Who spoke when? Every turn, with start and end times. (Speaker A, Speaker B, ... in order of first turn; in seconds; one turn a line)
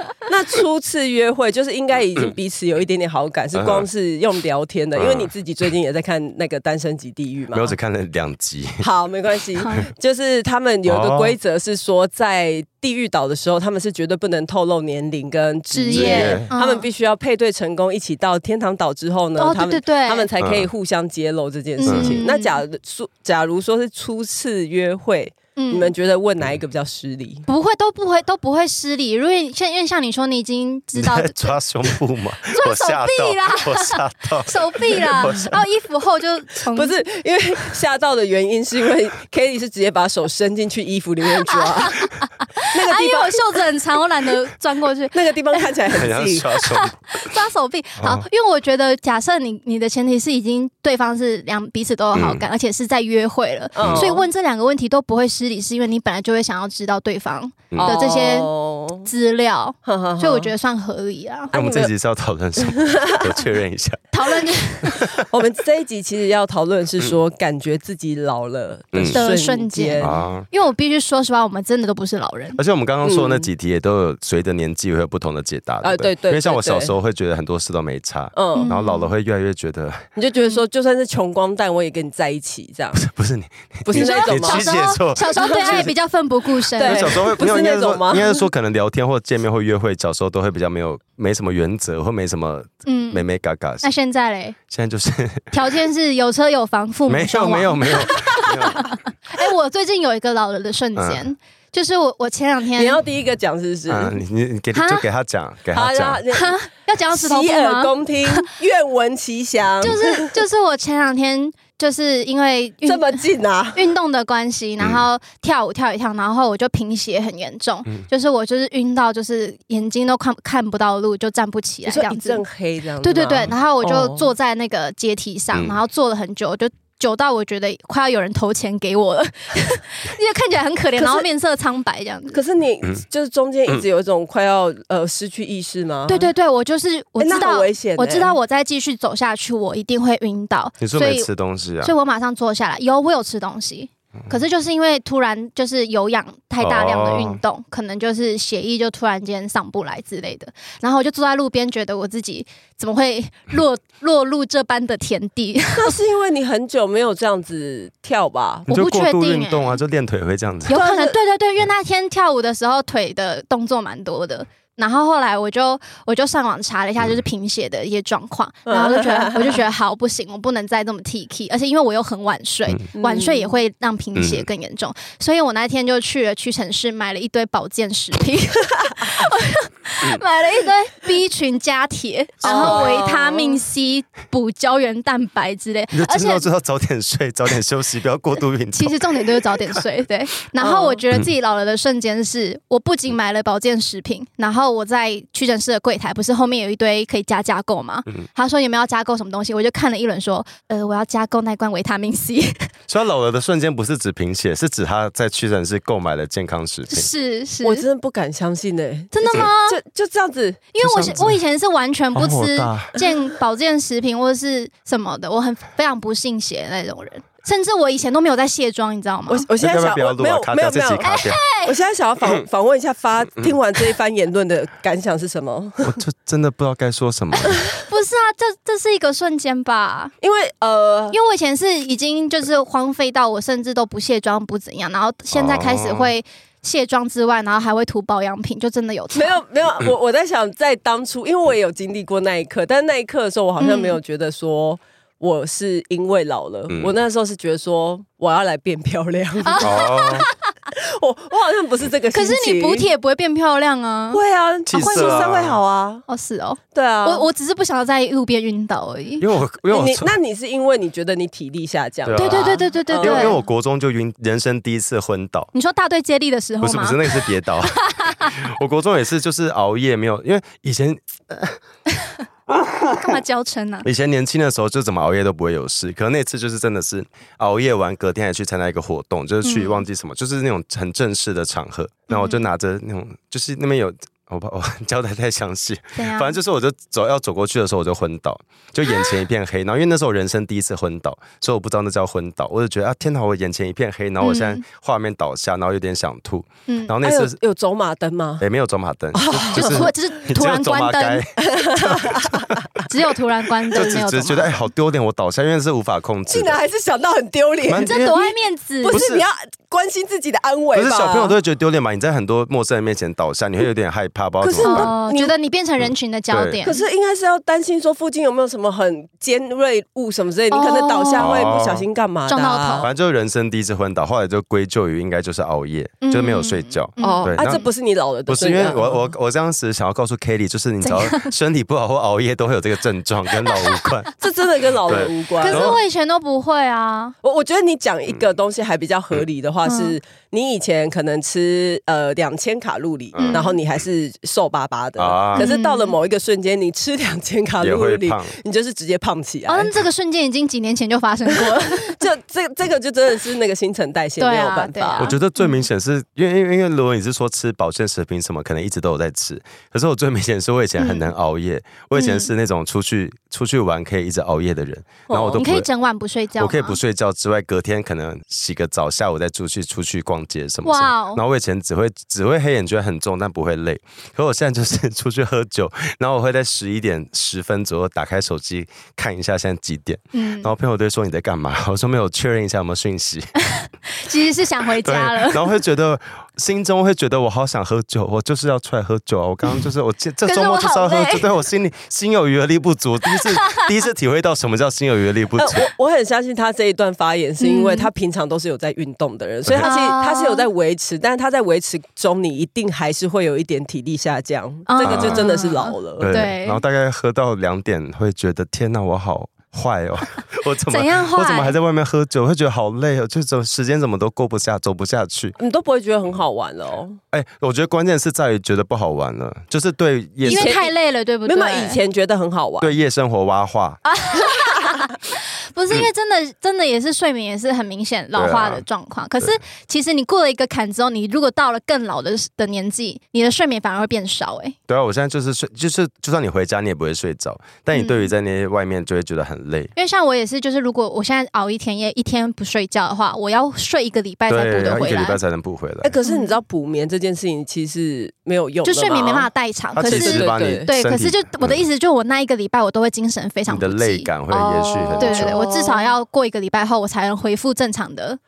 Speaker A: 0.3-7.7
Speaker B: 3.5-3.9
Speaker B: 4.9-5.3
Speaker B: 7.5-8.8
Speaker A: 8.8-27.5
Speaker C: 9.6-9.9
Speaker B: 10.8-11.3
Speaker C: 15.7-16.9
Speaker B: 15.9-16.5
Speaker C: 19.4-20.3
Speaker B: 20.4-20.7
Speaker C: 21.8-22.6
Speaker B: 21.8-22.2
Speaker C: 25.6-25.9
Speaker C: 27.5-36.9
Speaker B: 30.9-35.6
Speaker A: 36.7-42.1
Speaker C: 41.5-45.6
Speaker A: 42.7-43.6
Speaker A: 45.1-46.5
Speaker B: 45.9-46.9
Speaker C: 46.6-58.5
Speaker B: 48.0-48.2
Speaker B: 52.1-52.4
Speaker A: 53.7-54.2
Speaker B: 53.8-54.1
Speaker B: 57.7-58.0
Speaker A: 57.8-59.1
Speaker C: 59.0-61.5
Speaker A: 59.9-60.5
Speaker A: 61.5-61.9
Speaker B: 61.5-64.0
Speaker A: 62.6-63.4
Speaker C: 64.1-65.0
Speaker B: 64.8-65.2
Speaker A: 65.3-70.1
Speaker B: 68.9-69.3
Speaker C: 69.1-72.6
Speaker B: 70.0-70.5
Speaker B: 72.5-80.0
Speaker A: 73.0-73.5
Speaker A: 75.8-76.9
Speaker A: 78.3-78.7
Speaker C: 78.5-79.1
Speaker A: 80.2-83.1
Speaker B: 83.0-85.9
Speaker A: 83.9-85.9
Speaker C: 83.9-87.3
Speaker A: 86.8-88.3
Speaker B: 86.8-93.9
Speaker C: 92.8-93.2
Speaker C: 93.8-94.6
Speaker B: 94.7-95.5
Speaker C: 95.5-103.0
Speaker B: 97.1-98.9
Speaker B: 101.0-101.2
Speaker A: 102.8-104.2
Speaker B: 103.9-106.2
Speaker C: 104.7-105.0
Speaker A: 105.7-106.6
Speaker C: 106.3-108.5
Speaker A: 107.1-110.3
Speaker C: 109.8-122.4
Speaker A: 112.8-113.9
Speaker A: 121.8-124.3
Speaker C: 123.0-132.4
Speaker A: 131.0-131.3
Speaker A: 132.3-136.3
Speaker C: 136.1-141.3
Speaker A: 137.2-138.3
Speaker B: 140.8-141.9
Speaker C: 141.8-155.9
Speaker B: 146.6-147.4
Speaker A: 155.7-158.7
Speaker B: 158.7-160.7
Speaker C: 158.7-159.8
Speaker C: 160.7-186.4
Speaker A: 160.7-161.2
Speaker A: 168.7-169.6
Speaker A: 173.0-173.5
Speaker B: 174.2-174.5
Speaker B: 182.4-182.9
Speaker A: 182.4-183.6
Speaker B: 185.9-189.0
Speaker C: 188.7-202.7
Speaker A: 190.6-191.0
Speaker B: 202.9-207.1
Speaker C: 206.9-207.8
Speaker A: 207.6-210.6
Speaker C: 209.1-209.8
Speaker C: 210.7-219.5
Speaker B: 210.8-211.4
Speaker B: 212.1-212.9
Speaker A: 219.3-221.1
Speaker B: 219.6-221.4
Speaker C: 221.0-221.8
Speaker A: 221.7-225.9
Speaker B: 225.8-227.6
Speaker C: 227.9-230.1
Speaker A: 230.2-231.2
Speaker C: 231.1-239.4
Speaker B: 235.3-236.1
Speaker A: 239.1-250.0
Speaker C: 243.6-244.0
Speaker C: 249.4-250.3
Speaker B: 249.6-250.2
Speaker A: 250.7-252.9
Speaker C: 252.1-254.2
Speaker A: 254.1-256.1
Speaker B: 254.7-255.6
Speaker C: 254.7-255.3
Speaker C: 256.1-259.2
Speaker A: 256.7-257.3
Speaker B: 259.2-260.1
Speaker A: 259.7-263.4
Speaker B: 262.0-265.5
Speaker C: 262.1-263.4
Speaker C: 265.5-267.3
Speaker B: 266.6-271.6
Speaker C: 268.0-268.3
Speaker B: 272.6-273.1
Speaker C: 273.0-273.9
Speaker B: 273.8-297.4
Speaker C: 279.4-279.8
Speaker C: 282.1-282.4
Speaker C: 285.9-286.4
Speaker C: 294.2-294.6
Speaker C: 296.7-296.9
Speaker A: 297.0-298.4
Speaker B: 298.4-302.6
Speaker A: 299.1-299.9
Speaker C: 299.5-301.2
Speaker A: 301.4-302.6
Speaker C: 302.9-304.5
Speaker B: 303.7-306.6
Speaker A: 306.3-308.1
Speaker B: 307.7-308.3
Speaker C: 307.8-309.0
Speaker A: 308.8-311.4
Speaker B: 308.9-309.2
Speaker B: 310.7-314.9
Speaker A: 314.4-315.3
Speaker C: 314.6-316.8
Speaker B: 316.3-316.6
Speaker A: 316.6-322.9
Speaker C: 320.5-321.5
Speaker B: 321.2-321.9
Speaker C: 322.3-322.9
Speaker B: 322.8-327.6
Speaker C: 326.0-327.7
Speaker A: 327.0-329.1
Speaker B: 328.3-334.1
Speaker C: 330.8-331.3
Speaker C: 333.5-333.7
Speaker A: 334.2-335.8
Speaker B: 334.8-335.8
Speaker C: 335.4-337.1
Speaker A: 337.2-349.7
Speaker C: 339.6-339.9
Speaker B: 343.1-343.4
Speaker C: 343.2-343.6
Speaker B: 345.0-345.5
Speaker C: 345.4-345.9
Speaker B: 347.6-348.3
Speaker C: 349.5-352.0
Speaker A: 351.4-355.1
Speaker C: 354.2-355.6
Speaker B: 355.0-365.7
Speaker C: 360.8-361.1
Speaker C: 361.9-362.3
Speaker A: 365.1-365.4
Speaker C: 365.4-366.8
Speaker B: 366.4-383.3
Speaker C: 370.6-371.2
Speaker C: 380.1-380.5
Speaker C: 383.4-385.5
Speaker B: 384.8-395.7
Speaker C: 390.2-391.3
Speaker A: 395.4-406.1
Speaker C: 397.4-397.9
Speaker B: 399.4-399.7
Speaker C: 399.6-400.4
Speaker C: 404.7-406.6
Speaker B: 404.8-405.2
Speaker B: 406.0-415.3
Speaker C: 410.7-411.6
Speaker A: 415.4-417.0
Speaker B: 417.1-420.5
Speaker A: 420.2-420.7
Speaker C: 420.2-421.8
Speaker A: 421.2-422.7
Speaker B: 422.6-423.8
Speaker C: 423.9-434.6
Speaker B: 428.1-428.6
Speaker B: 434.7-439.7
Speaker C: 437.7-438.1
Speaker C: 439.8-445.2
Speaker B: 444.3-445.9
Speaker A: 445.8-449.3
Speaker C: 446.0-446.4
Speaker C: 448.6-458.2
Speaker B: 449.7-451.6
Speaker A: 449.8-450.7
Speaker B: 453.5-455.3
Speaker A: 454.6-455.9